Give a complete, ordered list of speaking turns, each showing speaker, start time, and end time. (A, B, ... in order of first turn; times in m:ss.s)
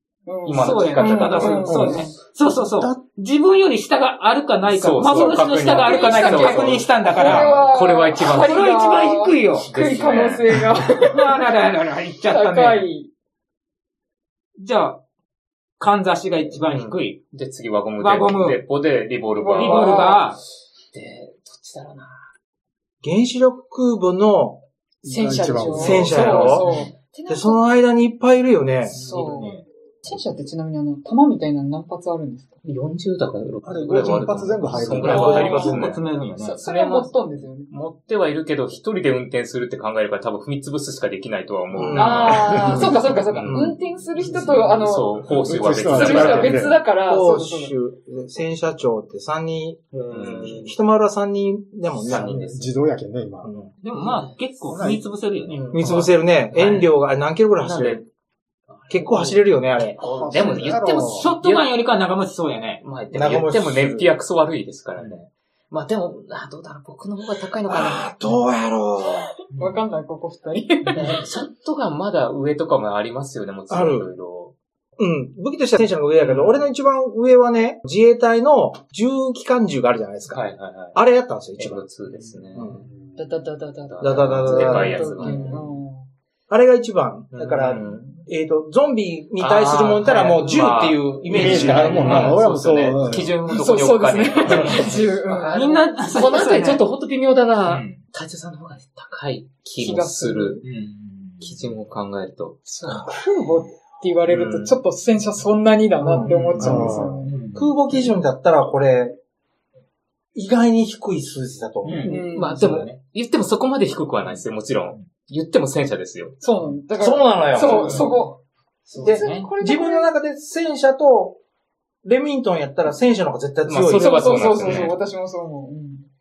0:00.3-0:02.1 A
0:00.5-0:01.9 B
0:00.6-0:07.6 C
0:01.7-0:02.0 D
0:04.7-0:08.7 B
0:05.7-0:11.5 A
0:08.2-0:09.7 C
0:09.7-0:10.6 B
0:10.9-0:12.9 C
0:12.3-0:13.1 A
0:14.6-0:15.0 C
0:15.8-0:17.2 C
0:16.7-0:20.3 B
0:18.0-0:18.6 C
0:19.3-0:20.3 A
0:19.6-0:20.4 C
0:20.9-0:22.2 B
0:23.0-0:24.6 E
0:25.0-0:26.5 D
0:25.1-0:27.6 A
0:25.7-0:26.7 E
0:26.5-0:26.8 B
0:27.3-0:29.0 E
0:28.9-0:32.6 A
0:28.9-0:29.6 C
0:32.6-0:36.0 B
0:33.6-0:35.6 D
0:34.9-0:36.0 E
0:35.1-0:36.6 C
0:36.4-0:37.7 A
0:36.6-0:46.7 B
0:41.7-0:42.7 E
0:41.9-0:45.2 A
0:42.4-0:42.9 D
0:43.4-0:43.8 E
0:45.4-0:46.8 D
0:45.7-0:47.8 A
0:47.0-0:52.5 E
0:49.9-0:50.7 C
0:50.1-0:50.7 B
0:51.9-0:52.8 B
0:52.1-0:53.7 D
0:53.4-0:53.7 E
0:53.8-0:56.9 C
0:54.7-0:55.0 D
0:55.5-0:56.0 B
0:55.7-0:58.0 E
0:57.6-0:58.0 B
0:58.7-1:01.7 B
0:58.9-1:00.0 E
1:00.0-1:01.3 D
1:00.6-1:02.8 C
1:02.8-1:08.1 B
1:03.1-1:04.1 E
1:07.7-1:09.3 E
1:09.5-1:09.8 C
1:09.5-1:11.2 A
1:11.0-1:14.5 B
1:13.7-1:14.1 E
1:15.0-1:20.4 E
1:16.2-1:16.7 B
1:20.3-1:21.0 B
1:20.9-1:21.8 E
1:21.6-1:22.9 B
1:22.6-1:22.9 E
1:23.2-1:26.1 A
1:23.9-1:25.6 B
1:24.0-1:25.5 E
1:26.5-1:32.4 E
1:27.3-1:28.3 B
1:29.4-1:40.6 B
1:31.3-1:33.4 D
1:31.4-1:32.3 C
1:33.5-1:35.8 A
1:34.5-1:34.9 C
1:35.5-1:36.8 C
1:37.6-1:38.0 C
1:39.8-1:40.6 A
1:40.6-1:41.7 C
1:41.4-1:43.0 B
1:42.9-1:43.6 E
1:43.0-1:47.3 A
1:44.3-1:44.8 B
1:46.0-1:46.9 E
1:46.2-1:47.8 C
1:46.6-1:47.3 D
1:47.5-1:49.2 E
1:50.4-1:52.3 E
1:51.8-1:53.0 C
1:52.1-1:52.6 A
1:52.1-1:56.4 B
1:56.4-1:58.4 A
1:57.0-1:58.1 E
1:57.6-1:58.3 C
1:58.9-1:59.5 C
1:59.0-2:00.2 A
1:59.0-2:01.4 E
2:02.0-2:04.9 E
2:03.7-2:05.0 B
2:03.9-2:06.1 A